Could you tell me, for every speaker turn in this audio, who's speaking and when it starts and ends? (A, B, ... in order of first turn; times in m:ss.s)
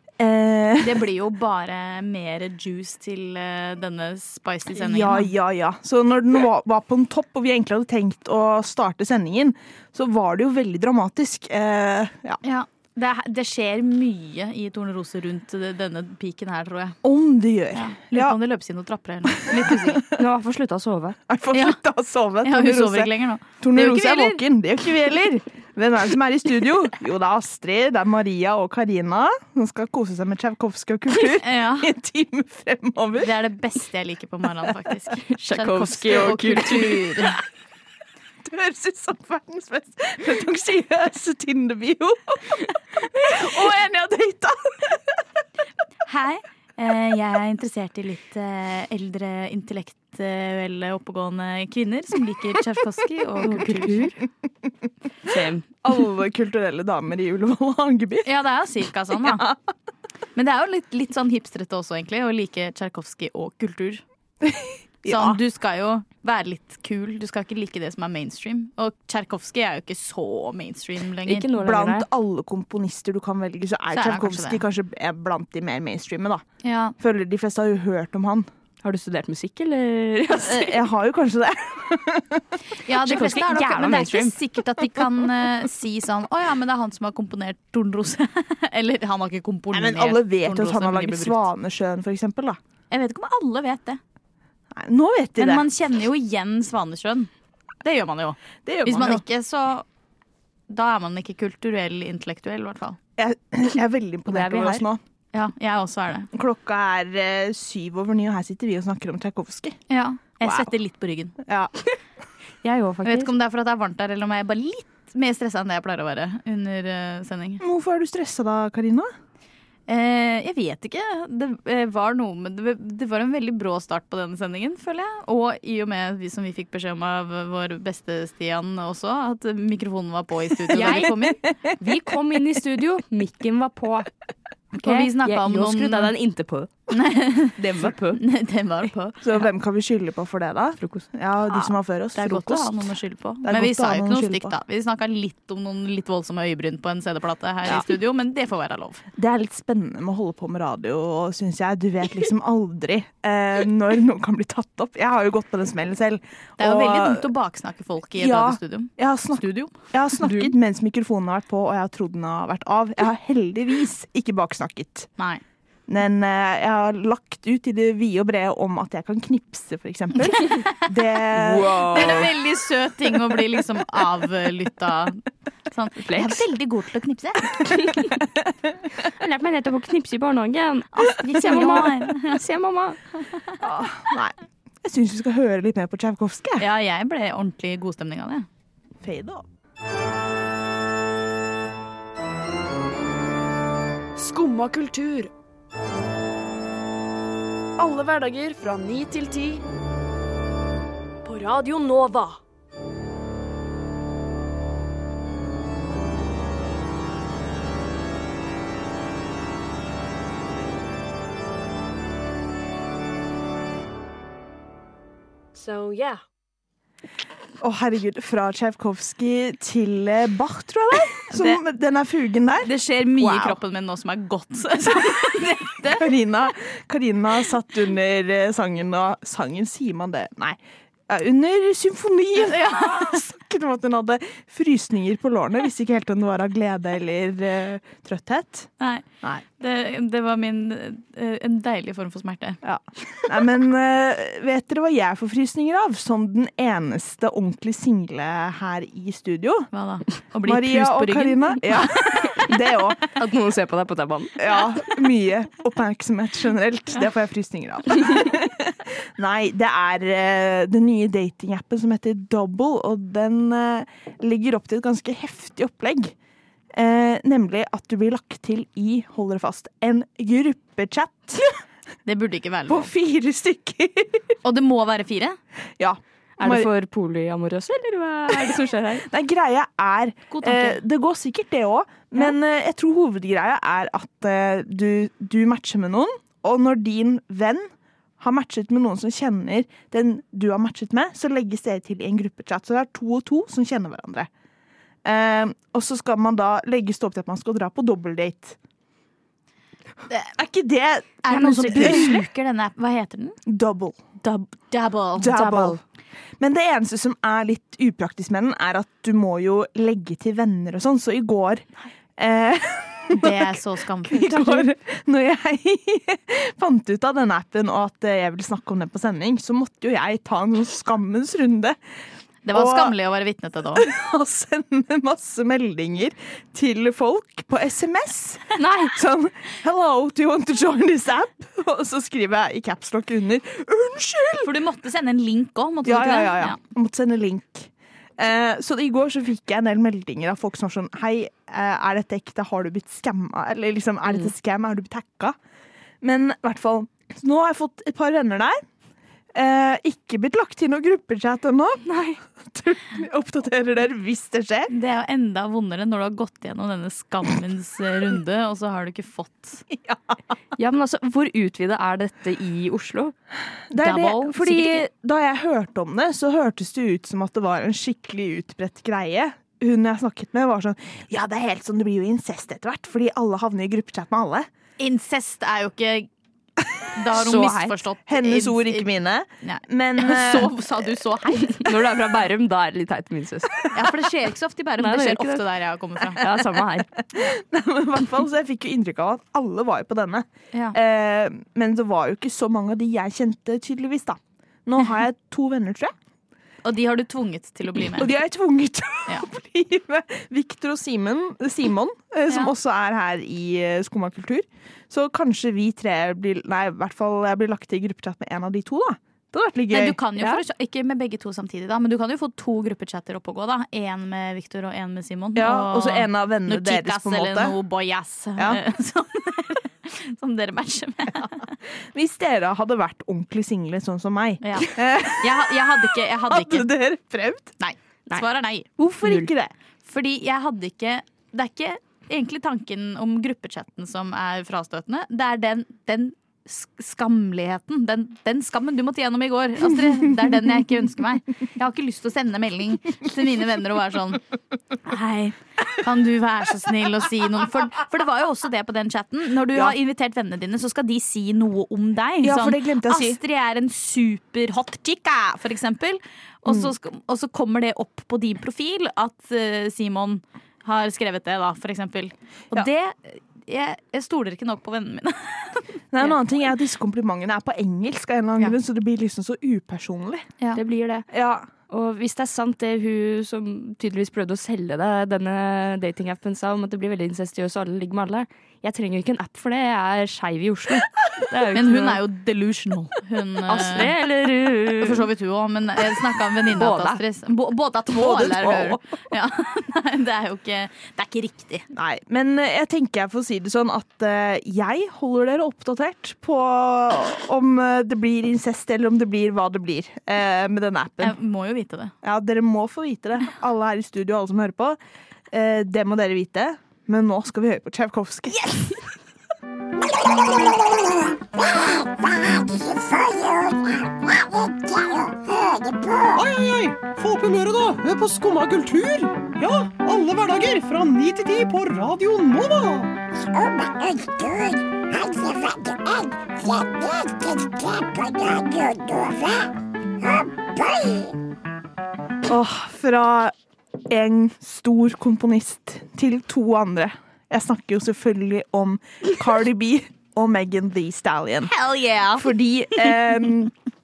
0:00.2-0:01.1 A
0:00.8-0:05.3 B
0:04.7-0:12.4 A
0:12.4-0:17.0 B
0:17.0-0:18.4 A
0:17.7-0:20.0 B
0:19.5-0:20.1 A
0:20.2-0:21.2 C
0:21.3-0:33.3 A
0:21.5-0:21.8 B
0:22.4-0:24.4 B
0:31.3-0:31.9 B
0:33.2-0:37.4 B
0:35.4-0:37.2 C
0:38.4-0:45.2 A
0:46.1-0:54.2 B
0:53.4-0:54.1 C
0:55.3-0:55.7 C
0:55.8-0:58.3 A
0:58.2-0:59.4 B
0:59.2-0:59.6 A
1:00.4-1:04.0 B
1:04.4-1:05.4 A
1:05.1-1:11.4 B
1:11.3-1:12.1 C
1:11.5-1:16.4 A
1:13.9-1:14.6 B
1:16.6-1:17.0 B
1:17.0-1:18.5 A
1:18.8-1:20.8 C
1:20.3-1:22.4 A
1:22.8-1:31.4 B
1:23.0-1:24.4 C
1:29.7-1:32.6 A
1:32.9-1:34.0 B
1:34.7-1:35.6 A
1:35.4-1:37.3 B
1:37.8-1:39.9 B
1:38.6-1:39.2 A
1:40.7-1:43.0 B
1:43.2-1:45.0 A
1:44.3-1:44.9 C
1:45.3-1:46.3 B
1:46.3-1:49.8 A
1:49.9-1:51.4 B
1:50.4-1:50.7 A
1:51.4-1:51.7 A
1:52.6-1:53.3 C
1:53.0-1:57.6 B
1:57.6-1:59.1 A
1:59.9-2:11.4 B
2:10.7-2:11.0 A
2:10.7-2:11.2 C
2:11.7-2:14.1 C
2:14.8-2:16.1 B
2:14.8-2:16.7 C
2:16.9-2:17.6 B
2:17.6-2:18.2 C
2:18.1-2:19.2 B
2:19.2-2:22.9 A
2:20.8-2:21.1 C
2:22.2-2:29.0 B
2:23.4-2:24.6 A
2:29.2-2:37.3 A
2:36.6-2:39.7 B
2:38.2-2:45.1 A
2:45.9-2:52.3 A
2:50.3-2:50.7 B
2:51.3-2:52.3 C
2:51.9-2:57.5 B
2:56.0-2:56.4 C
2:57.6-2:58.2 C
2:59.1-3:03.0 C
3:00.9-3:02.4 B
3:01.4-3:01.9 A
3:03.6-3:06.7 A
3:06.6-3:08.5 B
3:09.0-3:09.4 A
3:14.2-3:15.3 D
3:17.8-3:19.6 D
3:21.2-3:22.4 D
3:35.5-3:36.2 D
3:37.6-3:43.6 A
3:41.3-3:41.6 B
3:42.6-3:46.1 B
3:45.9-3:58.7 A
3:52.4-3:53.2 B
3:58.8-3:59.1 B
3:59.6-4:02.6 B
4:02.6-4:09.7 A
4:09.7-4:12.3 B
4:10.4-4:13.0 A
4:12.5-4:14.5 C
4:14.4-4:26.2 A
4:26.7-4:31.6 A
4:32.1-4:32.9 B
4:32.7-4:34.2 A
4:34.4-4:35.4 B
4:35.8-4:36.7 A
4:36.4-4:39.1 C
4:39.1-4:54.3 A
4:40.3-4:40.8 B
4:55.0-4:58.6 A
5:00.4-5:02.2 A
5:01.2-5:03.4 B
5:03.5-5:04.0 A
5:04.2-5:05.8 B
5:05.2-5:05.8 A
5:06.4-5:21.8 A
5:13.1-5:14.7 B
5:22.4-5:23.9 B
5:22.5-5:22.9 A
5:23.8-5:34.5 A
5:28.6-5:29.0 C
5:34.4-5:36.6 B
5:35.8-5:45.4 A
5:46.0-5:48.6 A
5:49.3-5:51.9 A
5:51.9-5:52.2 C
5:52.4-5:54.7 A
5:54.7-5:59.6 B
5:59.7-6:00.2 A
6:00.6-6:03.1 C
6:03.7-6:14.5 A
6:03.8-6:04.9 B
6:14.8-6:16.1 B
6:17.0-6:18.9 B
6:17.1-6:17.8 C
6:18.1-6:20.6 A
6:19.4-6:21.7 B
6:21.5-6:23.7 C
6:23.7-6:26.2 B
6:24.8-6:25.4 C
6:26.2-6:26.9 C
6:27.1-6:36.0 A
6:36.6-6:38.1 B
6:37.9-6:50.4 A
6:49.7-7:01.5 B
6:55.4-6:57.6 A
7:01.9-7:07.5 A
7:04.4-7:06.7 B
7:07.6-7:08.7 B
7:08.8-7:09.5 A
7:09.0-7:09.3 C
7:09.8-7:24.2 B
7:24.8-7:46.2 B
7:32.2-7:33.2 A
7:36.5-7:36.7 A
7:45.9-7:50.3 A
7:50.6-7:51.1 C
7:51.1-7:51.5 A
7:51.7-8:02.0 C
8:01.5-8:03.9 B
8:03.5-8:05.1 C
8:04.8-8:11.6 B
8:06.5-8:07.0 C
8:07.9-8:08.8 A
8:11.7-8:21.2 A
8:21.0-8:21.9 B
8:22.0-8:24.8 A
8:25.3-8:28.8 A
8:36.1-8:42.9 E
8:52.3-8:53.3 A
8:53.9-9:01.5 A
9:01.5-9:02.9 B
9:02.2-9:03.5 A